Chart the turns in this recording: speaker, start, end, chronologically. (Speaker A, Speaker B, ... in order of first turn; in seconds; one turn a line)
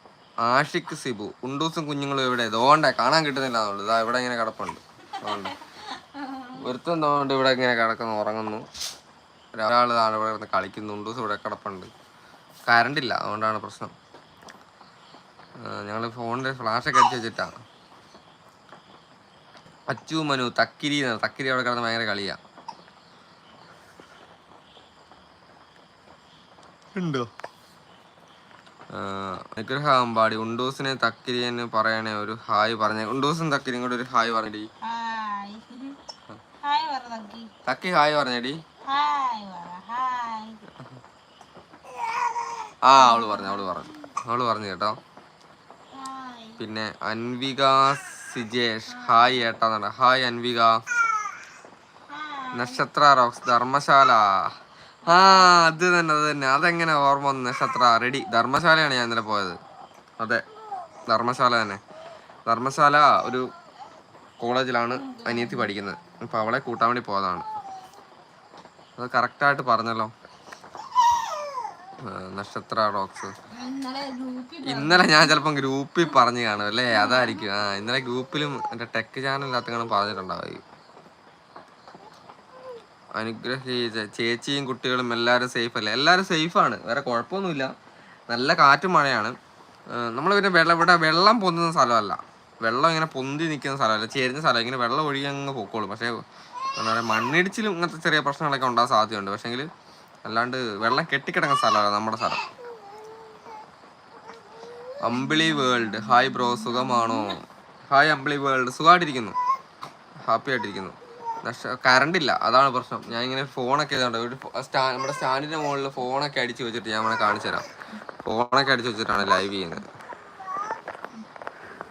Speaker A: 0.4-5.5
Speaker B: 5.1-6.6
Speaker A: 6.6-8.6
Speaker A: 9.5-11.9
Speaker A: 12.7-13.9
Speaker A: 15.6-17.5
Speaker A: 19.9-22.4
Speaker A: 26.9-27.3
Speaker A: 28.9-34.7
Speaker B: 34.8-36.0
Speaker B: 36.6-37.5
Speaker A: 37.6-38.6
Speaker B: 38.9-40.6
Speaker A: 42.8-45.0
Speaker B: 42.9-43.9
Speaker B: 45.9-46.6
Speaker A: 46.6-50.8
Speaker B: 48.9-49.5
Speaker B: 52.1-52.9
Speaker A: 52.5-54.5
Speaker B: 55.0-55.6
Speaker A: 55.1-59.6
Speaker A: 61.1-61.8
Speaker A: 62.5-63.5
Speaker A: 64.4-67.5
Speaker B: 64.9-66.6
Speaker A: 69.0-70.1
Speaker A: 72.0-73.3
Speaker B: 73.5-75.5
Speaker A: 74.6-80.6
Speaker B: 76.9-77.4
Speaker A: 83.2-87.7
Speaker A: 88.3-89.3
Speaker A: 89.9-96.2
Speaker A: 96.8-99.7
Speaker A: 100.2-102.4
Speaker A: 105.0-109.4
Speaker B: 105.1-107.4
Speaker A: 110.3-117.7
Speaker A: 118.2-119.8